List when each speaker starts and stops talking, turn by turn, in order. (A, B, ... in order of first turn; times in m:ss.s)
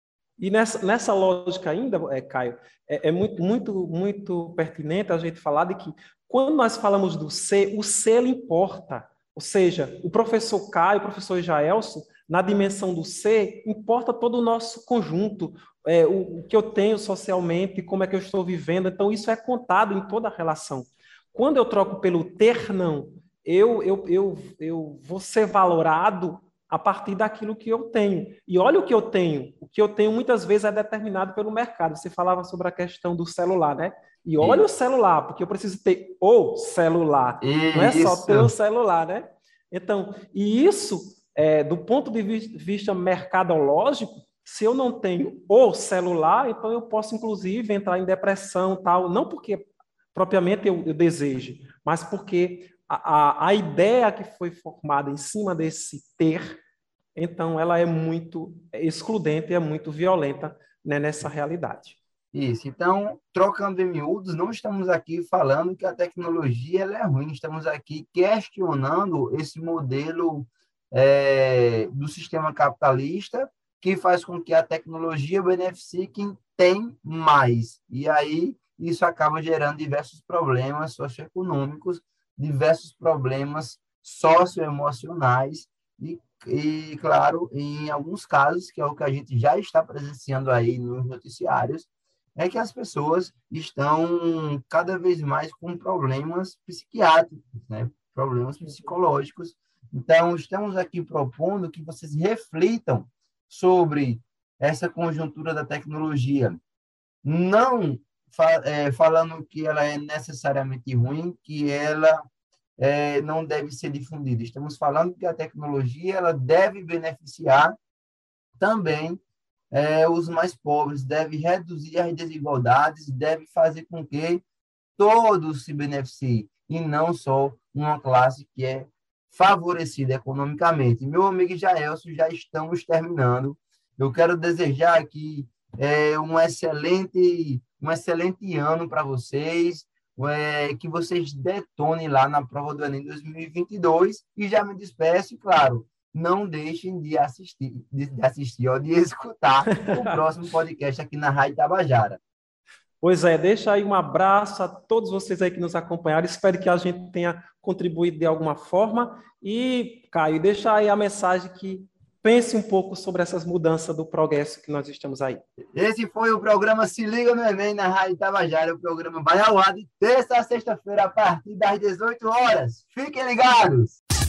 0:00.4-0:56.6 A
0:37.4-0:38.5 B
0:57.2-1:02.0 A
1:02.3-1:46.6 B
1:38.6-1:38.9 A
1:47.2-1:52.2 B
1:52.8-1:57.8 B
1:58.6-1:59.2 B
1:59.7-2:04.4 B
2:05.0-2:32.2 B
2:29.7-2:30.2 A
2:33.0-2:45.4 A
2:45.7-2:54.0 B